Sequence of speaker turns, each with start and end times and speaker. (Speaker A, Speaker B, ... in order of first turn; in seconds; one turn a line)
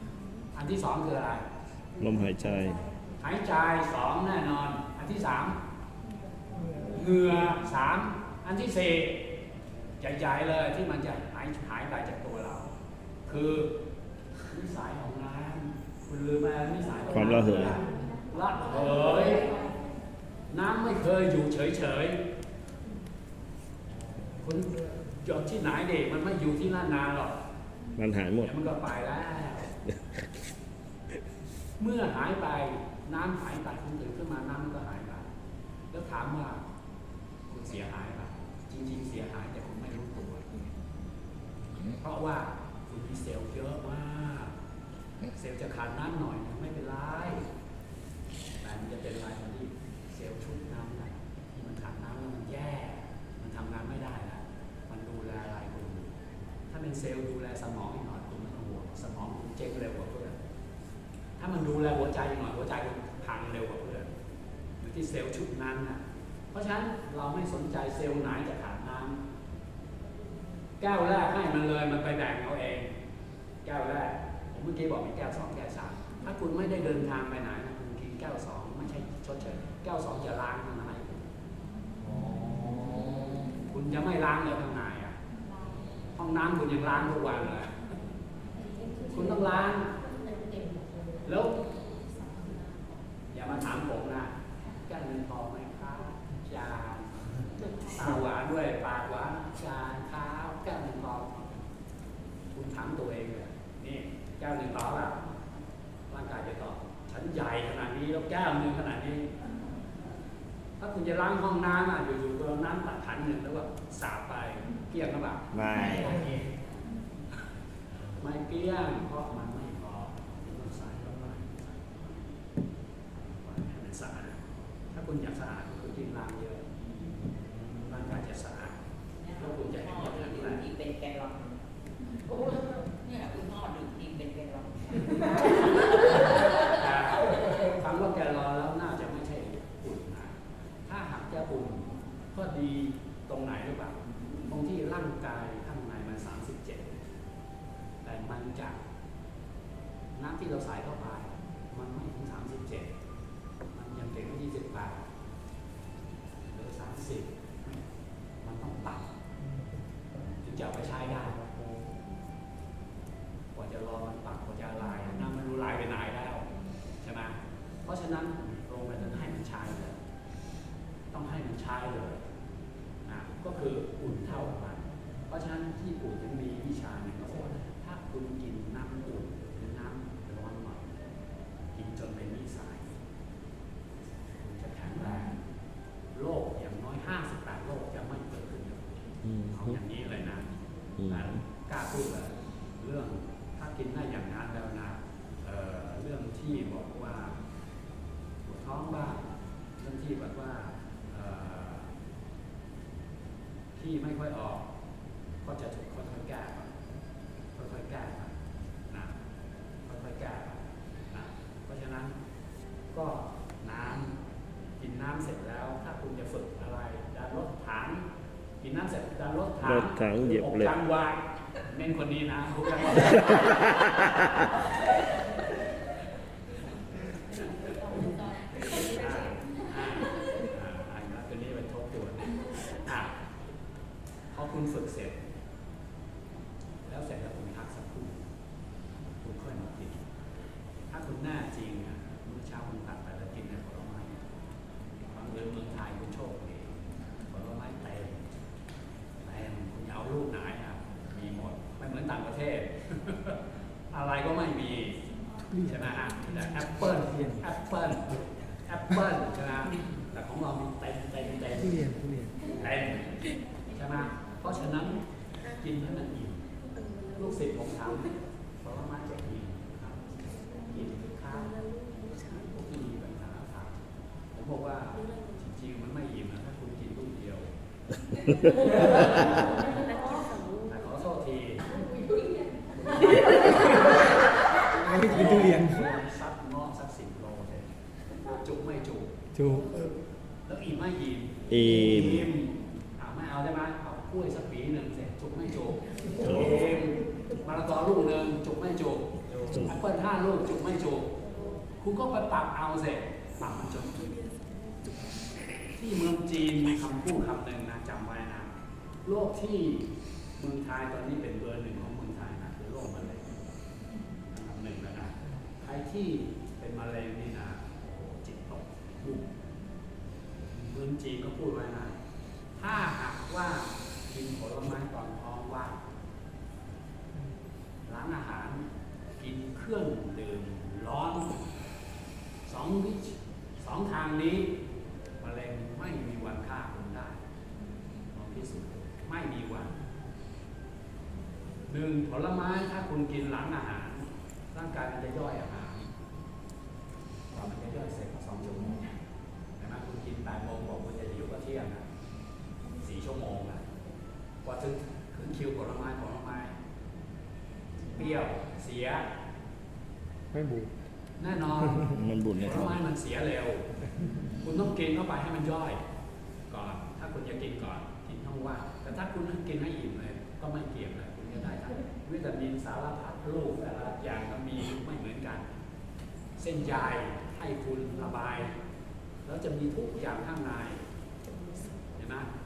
Speaker A: 0.5-1.5
Speaker B: 2.0-2.8
Speaker A: 3.2-5.6
Speaker A: 6.8-9.2
Speaker A: 10.0-12.7
Speaker A: 13.2-13.7
Speaker A: 14.4-19.6
Speaker B: 17.1-17.8
Speaker A: 20.5-22.2
Speaker A: 24.4-27.4
Speaker B: 28.0-28.5
Speaker A: 28.4-29.8
Speaker A: 31.8-35.3
Speaker A: 35.9-36.6
Speaker A: 37.5-40.5
Speaker A: 41.9-44.5
Speaker A: 45.3-47.5
Speaker A: 48.6-56.1
Speaker A: 56.7-60.4
Speaker A: 61.4-64.1
Speaker A: 64.8-69.2
Speaker A: 70.8-72.9
Speaker A: 73.7-81.3
Speaker A: 83.4-85.2
Speaker A: 86.2-87.8
Speaker A: 89.1-90.0
Speaker A: 91.2-91.7
Speaker A: 93.3-101.6
Speaker A: 102.5-105.2
Speaker A: 106.1-109.3
Speaker A: 110.8-116.4
Speaker B: 115.5-116.3
Speaker A: 118.2-122.3
Speaker A: 123.1-128.8
Speaker A: 129.3-130.7
Speaker C: 130.7-131.4
Speaker C: 132.7-135.5
Speaker A: 136.0-147.0
Speaker A: 148.0-148.8
Speaker A: 150.2-152.9
Speaker A: 153.7-155.0
Speaker A: 156.5-157.8
Speaker A: 158.4-159.1
Speaker A: 160.2-161.5
Speaker A: 163.5-166.5
Speaker A: 167.0-170.0
Speaker A: 171.1-172.2
Speaker A: 173.1-181.0
Speaker A: 181.7-182.9
Speaker A: 184.4-185.4
Speaker A: 186.1-188.9
Speaker B: 189.2-189.8
Speaker A: 189.5-190.5
Speaker B: 191.0-191.3
Speaker A: 191.1-197.4
Speaker A: 198.4-199.3
Speaker A: 199.8-201.9
Speaker A: 203.8-204.7
Speaker A: 205.4-206.7
Speaker A: 207.6-208.3
Speaker A: 208.9-209.2
Speaker A: 209.9-212.1
Speaker A: 212.9-214.2
Speaker A: 214.8-218.1
Speaker A: 218.6-223.9
Speaker B: 219.6-220.8
Speaker A: 227.3-233.2
Speaker A: 234.3-235.2
Speaker A: 236.9-238.3
Speaker A: 239.2-240.0
Speaker A: 240.9-244.2
Speaker A: 245.1-248.3
Speaker A: 249.2-253.4
Speaker A: 253.9-255.0
Speaker D: 255.5-255.8
Speaker A: 255.6-261.8
Speaker D: 257.1-257.4
Speaker D: 261.6-262.4
Speaker A: 262.5-266.5
Speaker A: 267.1-273.8
Speaker A: 274.3-277.5
Speaker A: 278.4-281.8
Speaker A: 282.7-284.1
Speaker D: 283.5-283.8
Speaker D: 284.7-285.9
Speaker A: 284.9-287.7
Speaker A: 288.2-289.1
Speaker D: 289.3-289.9
Speaker A: 290.5-301.1
Speaker B: 291.5-292.3
Speaker B: 296.2-296.6
Speaker B: 299.5-299.8
Speaker A: 301.8-304.2
Speaker A: 305.7-308.5
Speaker A: 309.1-313.4
Speaker A: 314.3-319.3
Speaker A: 320.5-322.0
Speaker A: 322.6-325.8
Speaker A: 327.9-328.7
Speaker A: 329.2-331.5
Speaker A: 332.5-334.5
Speaker A: 335.2-337.2
Speaker A: 338.1-339.8
Speaker A: 341.7-345.9
Speaker A: 347.3-348.9
Speaker A: 349.6-351.9
Speaker A: 352.8-353.6
Speaker A: 354.4-356.5
Speaker A: 357.9-359.1
Speaker D: 360.3-360.7
Speaker A: 361.2-363.7
Speaker B: 361.9-362.8
Speaker A: 364.4-365.8
Speaker A: 366.5-375.4
Speaker A: 376.4-378.6
Speaker A: 379.2-380.8
Speaker A: 382.0-382.3